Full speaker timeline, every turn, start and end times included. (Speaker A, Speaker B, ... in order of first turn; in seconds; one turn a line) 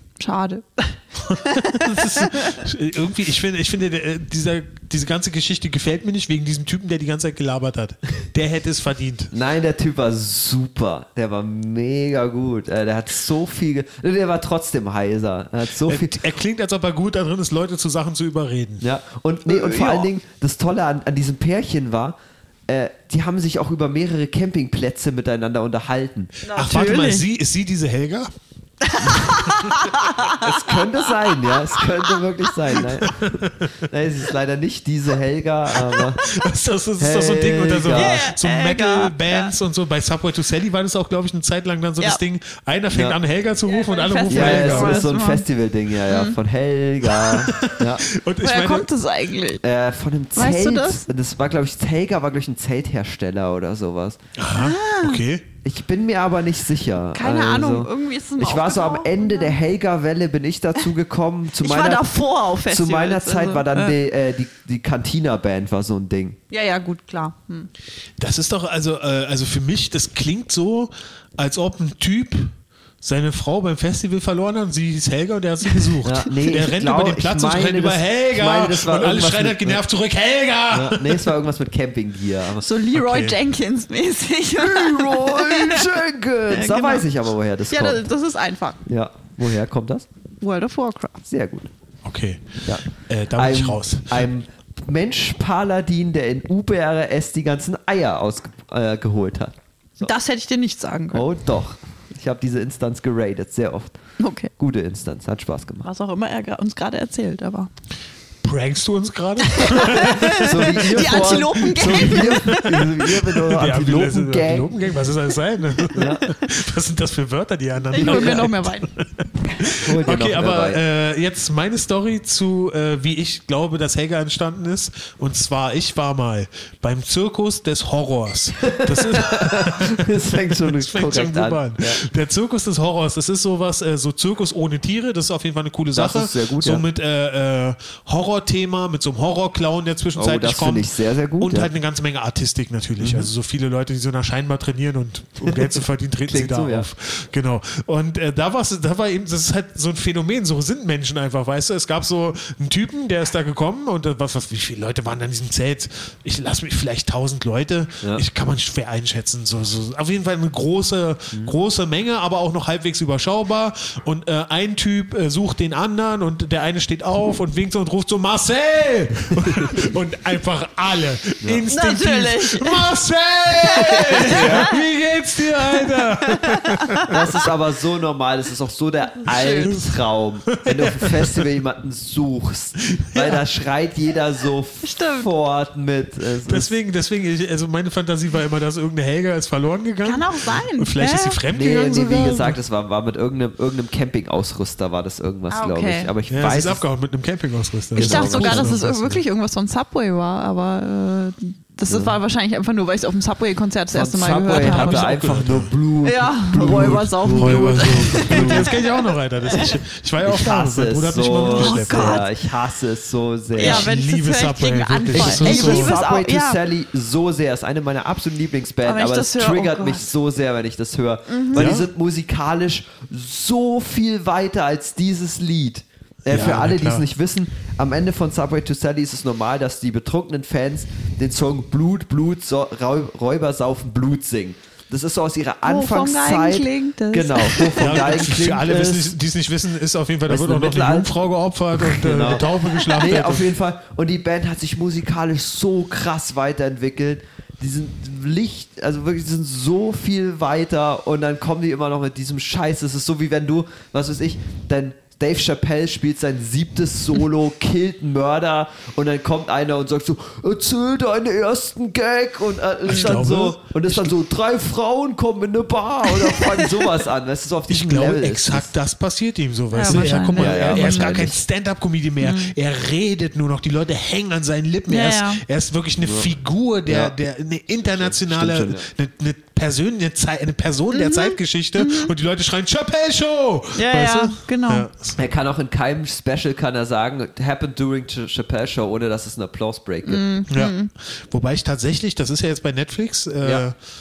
Speaker A: 0.2-2.6
Speaker B: 1.2-9.3
Speaker C: 9.3-16.2
Speaker B: 15.8-18.9
Speaker C: 18.8-22.1
Speaker A: 19.5-20.1
Speaker C: 22.7-26.4
Speaker A: 26.4-27.2
Speaker B: 26.5-28.3
Speaker A: 28.8-32.2
Speaker B: 29.0-29.8
Speaker C: 30.2-36.2
Speaker B: 33.0-33.7
Speaker B: 36.0-45.0
Speaker C: 37.0-38.3
Speaker A: 37.9-39.5
Speaker C: 42.9-43.2
Speaker A: 43.6-45.5
Speaker C: 44.2-48.0
Speaker A: 46.1-46.4
Speaker B: 47.1-48.9
Speaker A: 48.4-49.6
Speaker C: 49.6-54.2
Speaker A: 50.3-51.0
Speaker B: 54.4-55.5
Speaker A: 54.5-55.2
Speaker C: 55.6-62.1
Speaker A: 57.1-59.6
Speaker A: 61.6-64.0
Speaker C: 62.6-66.4
Speaker A: 66.5-67.7
Speaker B: 68.2-81.3
Speaker C: 76.0-79.8
Speaker C: 80.7-82.7
Speaker A: 82.6-86.0
Speaker B: 82.9-83.3
Speaker C: 84.5-88.0
Speaker A: 86.5-87.1
Speaker A: 87.7-88.8
Speaker C: 88.8-90.1
Speaker A: 90.4-91.2
Speaker C: 91.2-91.7
Speaker B: 92.0-94.3
Speaker C: 92.6-100.1
Speaker A: 100.0-101.3
Speaker C: 101.1-104.0
Speaker A: 104.2-104.5
Speaker C: 104.6-105.9
Speaker A: 105.8-107.7
Speaker B: 108.4-177.2
Speaker A: 109.5-112.8
Speaker C: 109.8-114.7
Speaker C: 115.9-116.2
Speaker A: 117.9-118.9
Speaker C: 117.9-118.5
Speaker C: 119.7-120.8
Speaker C: 128.6-132.0
Speaker C: 135.9-136.8
Speaker C: 140.2-141.7
Speaker C: 143.0-143.3
Speaker C: 145.4-146.9
Speaker C: 169.4-169.8
Speaker A: 171.7-172.9
Speaker A: 173.6-174.8
Speaker C: 173.8-174.7
Speaker A: 175.7-177.2
Speaker C: 177.1-186.7
Speaker A: 179.2-179.7
Speaker B: 179.6-181.5
Speaker B: 182.8-183.4
Speaker A: 184.8-185.3
Speaker B: 186.4-192.6
Speaker A: 190.0-191.4
Speaker C: 191.5-196.8
Speaker A: 195.5-196.1
Speaker B: 196.3-199.2
Speaker C: 197.9-198.7
Speaker A: 197.9-205.2
Speaker C: 201.9-202.2
Speaker C: 203.9-208.8
Speaker B: 204.6-205.7
Speaker A: 206.0-209.7
Speaker B: 206.5-212.2
Speaker C: 210.2-213.9
Speaker A: 211.3-212.3
Speaker B: 213.6-215.9
Speaker A: 213.6-216.6
Speaker C: 215.1-239.1
Speaker A: 218.8-220.1
Speaker A: 221.3-221.8
Speaker B: 221.5-221.9
Speaker B: 226.3-227.1
Speaker A: 235.6-237.9
Speaker B: 237.7-243.5
Speaker C: 240.3-241.1
Speaker C: 241.7-268.7
Speaker B: 262.9-264.1
Speaker A: 266.0-266.9
Speaker B: 267.7-285.2
Speaker A: 269.7-271.3
Speaker C: 269.8-271.4
Speaker A: 272.2-272.5
Speaker A: 274.9-275.4
Speaker C: 276.0-276.4
Speaker C: 276.9-277.1
Speaker C: 277.9-278.9
Speaker A: 280.9-282.1
Speaker A: 283.8-284.9
Speaker C: 285.2-290.2
Speaker A: 290.0-290.9
Speaker B: 290.5-293.8